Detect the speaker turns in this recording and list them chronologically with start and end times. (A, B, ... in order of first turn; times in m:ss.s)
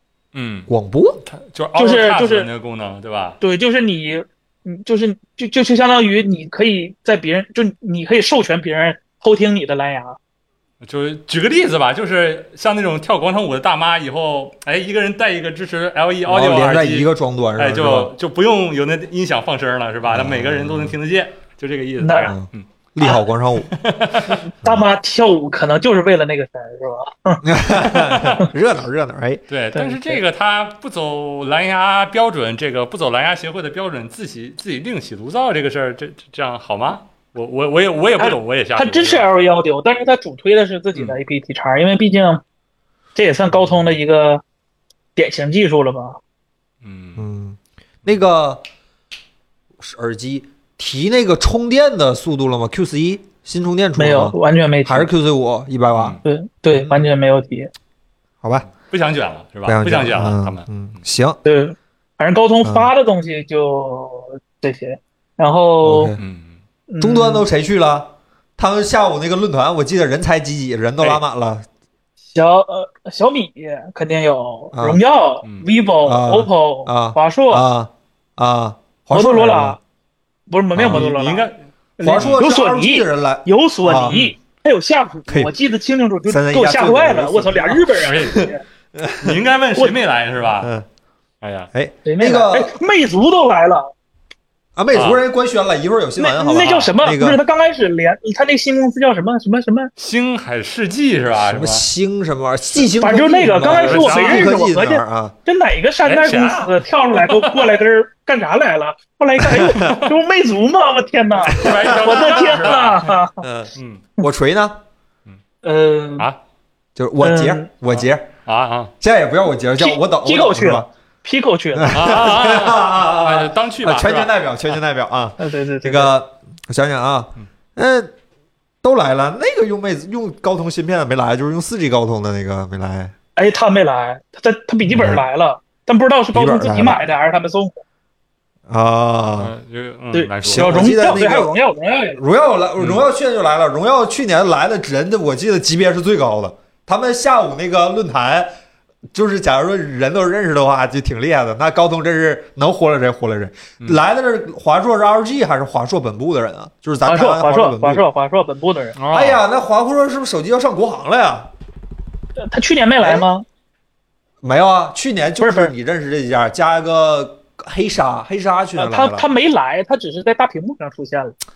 0:00.3-0:00.7 A
0:00.7-0:01.2 B
0:01.3-0:03.4 A
0:01.8-0:02.5 C
0:03.4-0:10.2 C
0:10.8-0:22.7 A
0:16.3-0:18.1 B
0:20.1-0:21.0 B
0:22.0-0:22.3 C
0:22.3-0:23.7 B
0:23.7-0:24.4 A
0:24.5-0:28.5 C
0:27.4-0:29.4 B
0:28.1-0:28.4 A
0:29.5-0:39.3 A
0:29.8-0:30.2 C
0:38.2-0:42.4 C
0:43.2-0:44.4 C
0:45.2-0:46.2 C
0:46.8-0:47.3 A
0:47.2-0:48.6 B
0:49.8-0:56.2 B
0:54.0-0:55.1 C
0:55.9-0:56.2 A
0:56.2-0:57.7 C
0:56.7-0:57.0 B
0:58.4-0:58.7 B
0:58.7-1:00.7 A
0:59.6-1:01.4 B
1:01.4-1:06.1 C
1:02.6-1:02.9 B
1:05.8-1:06.2 B
1:06.2-1:06.6 A
1:06.9-1:07.4 C
1:07.0-1:11.7 B
1:12.3-1:17.6 C
1:14.7-1:15.0 B
1:16.0-1:19.8 B
1:19.1-1:19.8 C
1:20.5-1:28.6 C
1:20.8-1:21.1 B
1:20.8-1:21.6 A
1:22.0-1:24.2 B
1:22.1-1:22.4 A
1:24.1-1:24.3 A
1:25.3-1:25.5 B
1:26.3-1:29.4 B
1:27.9-1:28.5 A
1:29.2-1:30.7 A
1:30.6-1:30.9 B
1:31.4-1:31.7 A
1:31.7-1:32.8 B
1:32.0-1:33.9 C
1:34.8-1:37.4 B
1:34.9-1:35.2 A
1:36.2-1:39.9 C
1:36.6-1:36.9 A
1:40.0-1:41.8 A
1:41.4-1:45.4 B
1:43.0-1:53.4 C
1:43.6-1:44.5 A
1:46.0-1:47.7 A
1:49.4-1:50.0 B
1:49.8-1:50.1 A
1:51.5-1:53.2 A
1:51.5-1:52.8 B
1:53.4-1:54.8 B
1:53.8-1:54.0 A
1:55.6-1:56.3 C
1:57.0-1:58.3 B
1:57.2-1:57.7 C
1:57.9-1:58.9 A
1:59.0-2:00.9 B
1:59.8-2:02.2 C
2:01.7-2:08.1 B
2:01.9-2:04.3 A
2:05.4-2:06.1 C
2:08.8-2:13.1 B
2:13.4-2:17.8 C
2:14.8-2:15.2 B
2:16.3-2:17.0 B
2:18.7-2:19.5 B
2:19.4-2:20.9 A
2:20.1-2:22.2 C
2:20.4-2:21.5 B
2:22.2-2:28.5 B
2:22.8-2:23.0 A
2:29.1-2:38.0 B
2:37.1-2:39.0 C
2:39.0-2:39.4 A
2:39.1-2:41.5 B
2:42.4-2:43.4 C
2:43.0-2:43.3 B
2:44.4-2:49.3 B
2:45.4-2:45.7 C
2:48.8-2:51.4 C